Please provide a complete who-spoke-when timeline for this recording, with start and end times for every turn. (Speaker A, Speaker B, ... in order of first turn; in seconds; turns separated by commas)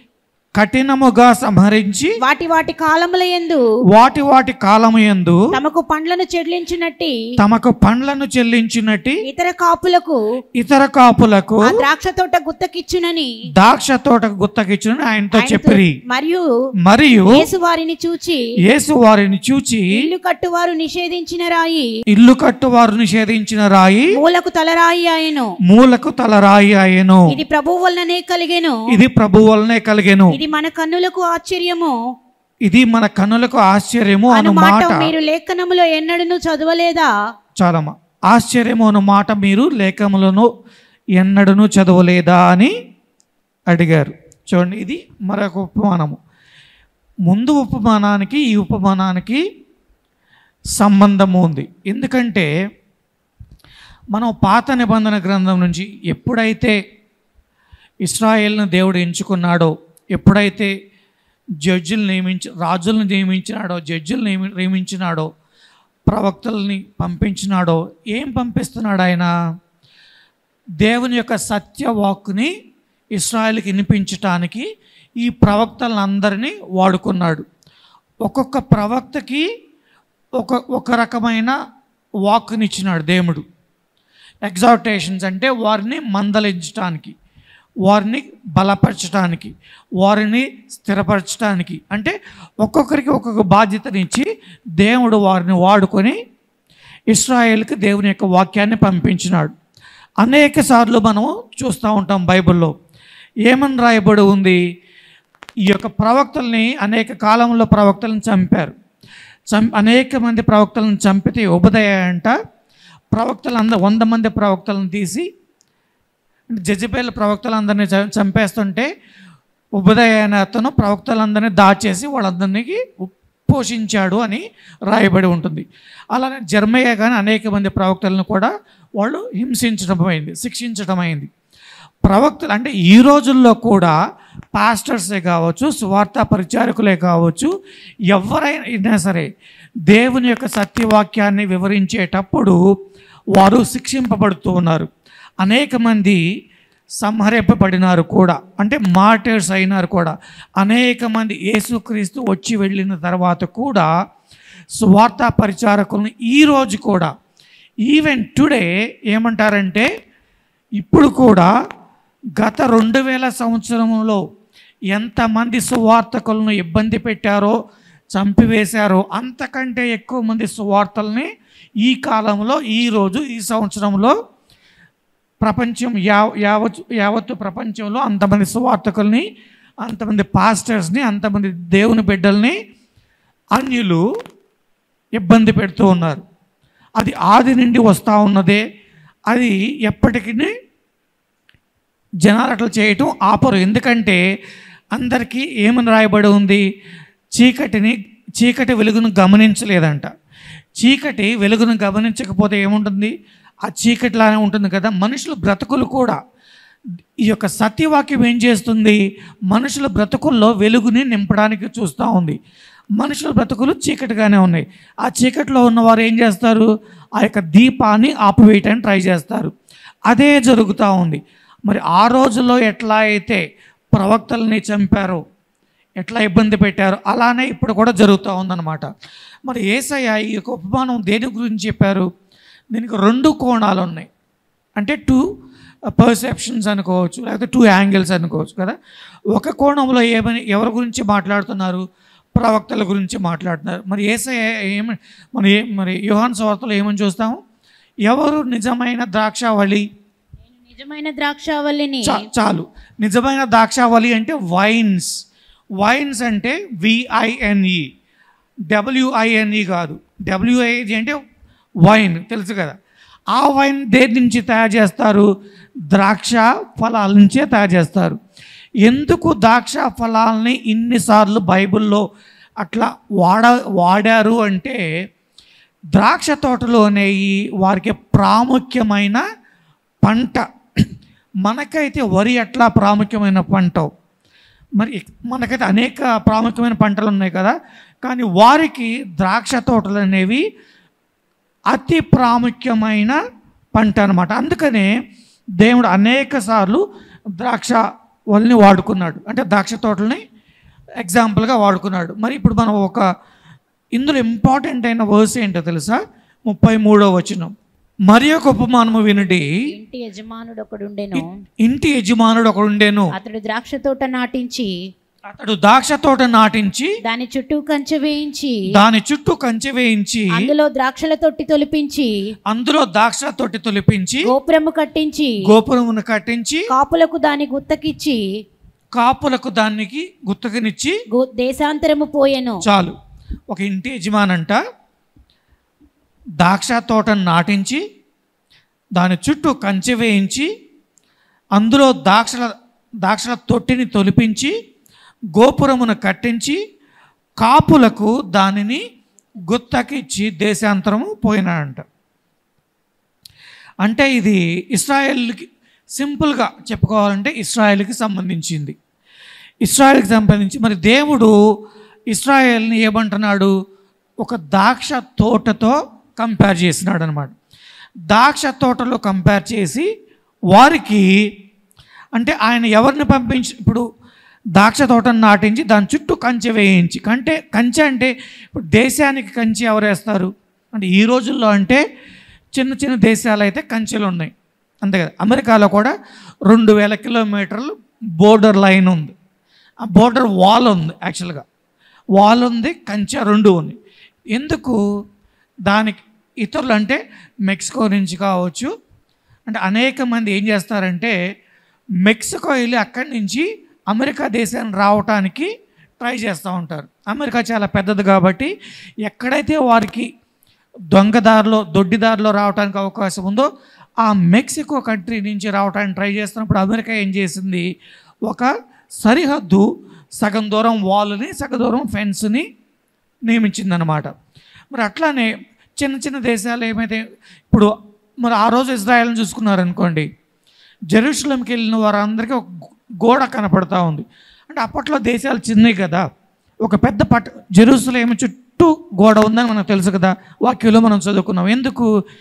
Speaker A: 0.6-2.1, Speaker B: 2.2-3.6, Speaker A: 3.9-5.4, Speaker B: 5.5-7.2, Speaker A: 7.4-9.2, Speaker B: 9.2-10.2, Speaker A: 10.6-11.8, Speaker B: 11.6-13.3, Speaker A: 13.6-16.0, Speaker B: 15.3-16.5, Speaker A: 16.9-17.4, Speaker B: 17.3-18.4, Speaker A: 18.6-20.0, Speaker B: 19.9-21.9, Speaker A: 22.1-24.1, Speaker B: 24.1-25.5, Speaker A: 25.7-27.3, Speaker B: 27.3-28.9, Speaker A: 28.9-30.4, Speaker B: 30.3-32.0, Speaker A: 32.6-35.1, Speaker B: 34.3-37.1, Speaker A: 37.6-40.5, Speaker A: 41.1-42.7, Speaker A: 43.7-46.2, Speaker A: 47.3-49.4, Speaker A: 50.8-52.5, Speaker A: 54.1-56.8, Speaker A: 58.0-60.7, Speaker A: 61.6-65.3, Speaker A: 66.1-69.3, Speaker A: 70.8-72.5, Speaker A: 73.1-74.7, Speaker A: 75.2-77.5, Speaker A: 78.2-79.4, Speaker A: 80.4-81.5, Speaker A: 82.3-83.4, Speaker A: 84.4-87.1, Speaker A: 87.9-96.2, Speaker A: 97.1-99.5, Speaker A: 100.2-102.7, Speaker A: 103.5-104.6, Speaker A: 105.7-108.7, Speaker A: 109.5-112.3, Speaker A: 113.1-115.3, Speaker A: 116.5-118.9, Speaker A: 119.8-131.3, Speaker A: 132.1-133.9, Speaker A: 134.5-137.5, Speaker A: 138.1-139.3, Speaker A: 139.9-142.6, Speaker A: 143.4-144.9, Speaker A: 145.4-146.2, Speaker A: 147.0-153.9, Speaker A: 154.8-157.1, Speaker A: 157.9-159.9, Speaker A: 160.8-161.5, Speaker A: 162.4-164.2, Speaker A: 164.9-167.6, Speaker A: 168.1-171.3, Speaker A: 171.8-174.1, Speaker A: 175.4-179.3, Speaker A: 179.8-182.6, Speaker A: 183.5-184.0, Speaker A: 185.2-186.2, Speaker A: 187.0-188.6, Speaker A: 189.3-190.5, Speaker A: 192.2-194.2, Speaker A: 194.9-196.6, Speaker A: 197.4-200.1, Speaker A: 200.8-203.1, Speaker A: 203.7-206.2, Speaker A: 207.3-212.4, Speaker A: 213.0-219.5, Speaker A: 220.1-223.4, Speaker A: 223.9-225.2, Speaker A: 226.0-228.9, Speaker A: 229.5-232.1, Speaker A: 232.7-234.1, Speaker A: 234.8-235.2, Speaker A: 235.9-238.8, Speaker A: 239.3-241.8, Speaker A: 242.4-247.4, Speaker A: 248.1-249.8, Speaker B: 250.5-252.2, Speaker A: 252.0-255.1, Speaker A: 255.8-257.8, Speaker A: 258.7-261.2, Speaker A: 261.8-262.8, Speaker A: 263.3-265.3, Speaker A: 265.9-268.2, Speaker A: 268.8-272.0, Speaker A: 272.6-274.8, Speaker A: 275.9-279.2, Speaker A: 280.0-280.9, Speaker A: 281.4-283.9, Speaker A: 284.8-290.4, Speaker A: 291.7-293.2, Speaker A: 293.8-294.9, Speaker A: 295.6-296.8, Speaker A: 297.4-297.8, Speaker A: 298.3-300.2, Speaker A: 301.0-303.0, Speaker A: 303.9-307.5, Speaker A: 308.1-309.4, Speaker B: 309.7-311.3, Speaker A: 311.1-313.1, Speaker B: 313.1-314.7, Speaker A: 315.3-316.9, Speaker B: 317.1-318.6, Speaker A: 318.7-320.5, Speaker B: 320.3-322.1, Speaker A: 322.5-324.2, Speaker B: 324.2-325.4, Speaker A: 325.4-326.6, Speaker B: 326.7-328.2, Speaker A: 328.9-331.0, Speaker B: 331.1-332.6, Speaker A: 332.6-332.9, Speaker A: 333.5-334.6, Speaker A: 336.4-337.8, Speaker A: 339.0-340.5, Speaker A: 341.6-342.5, Speaker A: 343.0-344.5, Speaker A: 345.4-346.6, Speaker A: 347.4-348.8, Speaker A: 349.4-351.8, Speaker A: 353.8-358.8, Speaker A: 359.6-361.3, Speaker A: 362.1-363.5, Speaker A: 364.2-367.3, Speaker A: 368.1-369.9, Speaker A: 370.5-371.0, Speaker A: 372.1-373.8, Speaker A: 374.6-381.8, Speaker A: 382.6-384.3, Speaker A: 384.8-385.9, Speaker A: 386.5-389.1, Speaker A: 389.8-391.4, Speaker A: 392.2-393.8, Speaker A: 394.4-394.8, Speaker A: 395.6-398.7, Speaker A: 399.5-401.1, Speaker A: 402.0-405.5, Speaker A: 406.0-408.5, Speaker A: 409.1-410.1, Speaker A: 410.9-413.5, Speaker A: 414.0-417.7, Speaker A: 419.0-419.6, Speaker A: 420.2-422.5, Speaker A: 423.3-424.1, Speaker A: 424.7-425.3, Speaker A: 425.8-427.0, Speaker A: 428.2-430.1, Speaker A: 430.9-432.5, Speaker A: 433.0-436.0, Speaker A: 436.6-441.9